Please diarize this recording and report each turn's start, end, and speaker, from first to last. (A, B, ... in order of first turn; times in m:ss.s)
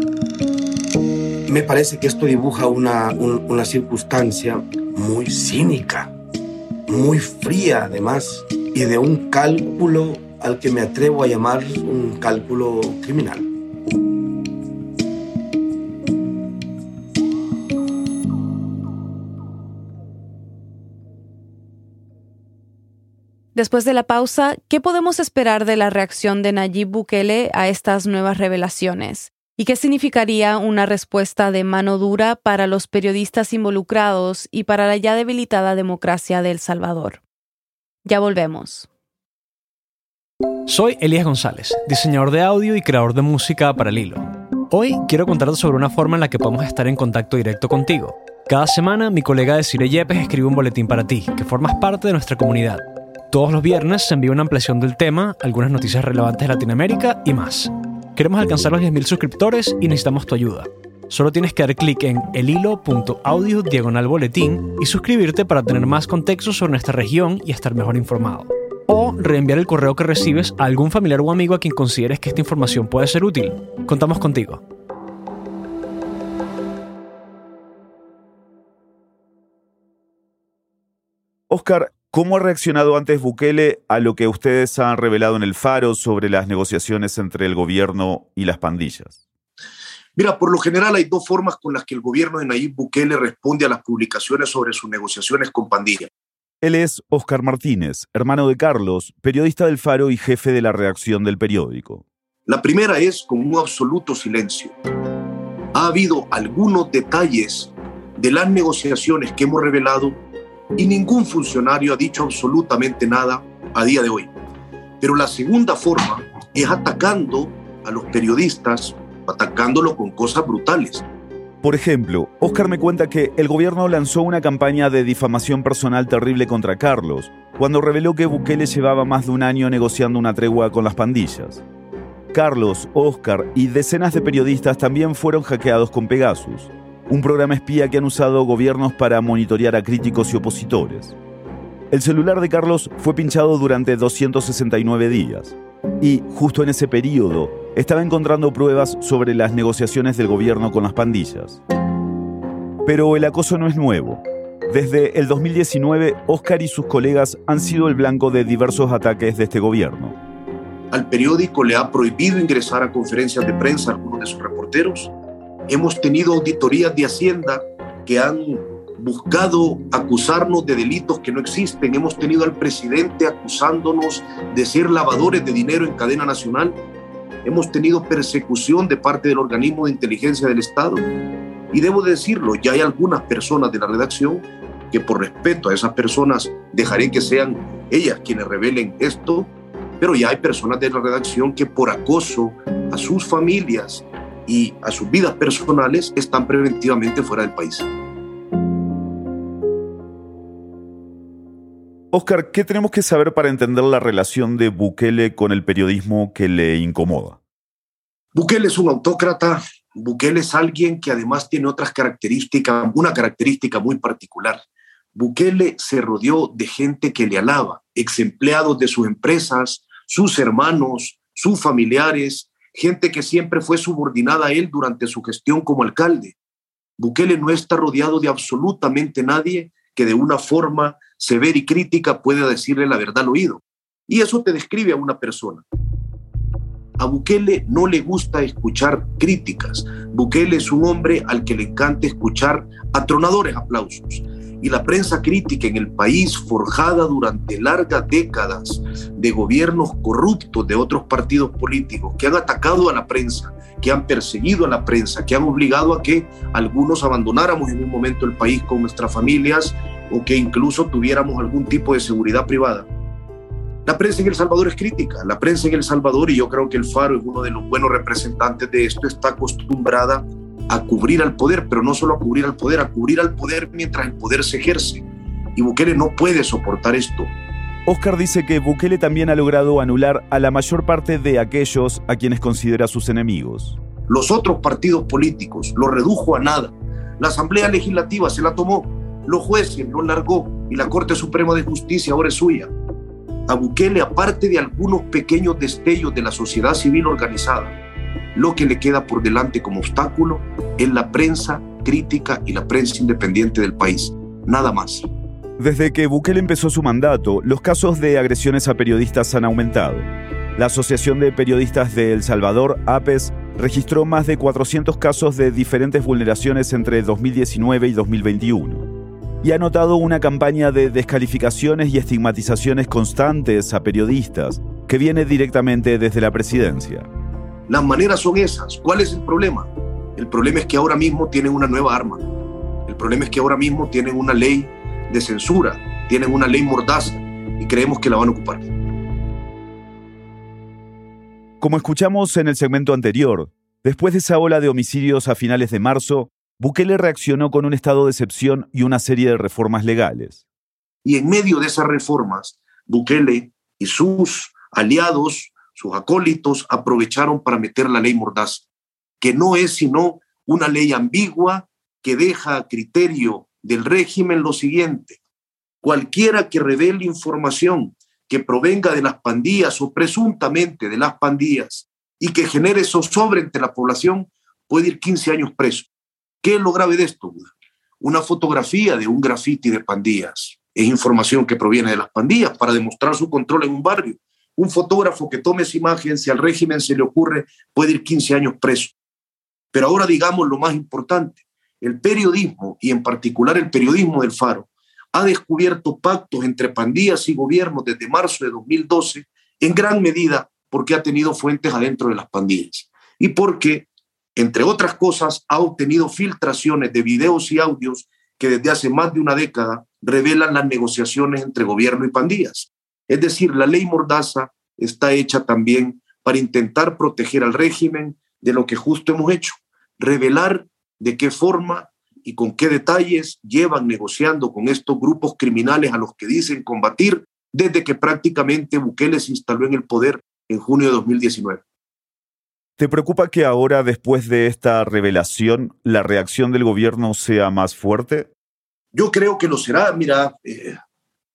0:01.5-0:06.1 A
0:06.9-0:13.5 A
0:23.5-0:37.2 B
0:38.0-0:38.9 B
0:40.7-1:14.6 C
1:21.5-1:29.2 D
1:30.1-1:36.1 E
1:36.6-1:42.0 D
1:42.5-1:44.8 E
1:45.7-1:50.2 E
1:50.8-1:54.3 E
1:55.0-2:01.0 E
2:01.6-2:11.6 D
2:12.3-2:21.2 D
2:21.9-2:31.6 D
2:32.8-2:40.2 D
2:40.9-2:45.1 E
2:45.7-2:56.8 E
2:57.4-3:01.0 E
3:01.7-3:17.9 E
3:22.1-3:27.4 D
3:28.3-3:34.6 E
3:35.1-3:46.4 E
3:47.0-3:55.6 E
3:57.0-4:22.9 E
4:23.8-4:35.0 E
4:35.6-4:37.3 E
4:37.9-4:43.8 D
4:44.1-4:52.7 E
4:53.5-4:57.8 E
4:58.3-5:05.1 E
5:05.6-5:18.8 D
5:19.4-5:27.1 D
5:27.7-5:32.2 E
5:32.8-5:38.7 E
5:41.6-5:50.4 D
5:51.0-5:58.7 E
5:59.2-6:05.2 E
6:05.8-6:15.9 E
6:16.4-6:28.9 E
6:29.7-7:11.6 E
7:12.8-7:18.3 D
7:18.9-7:20.8 E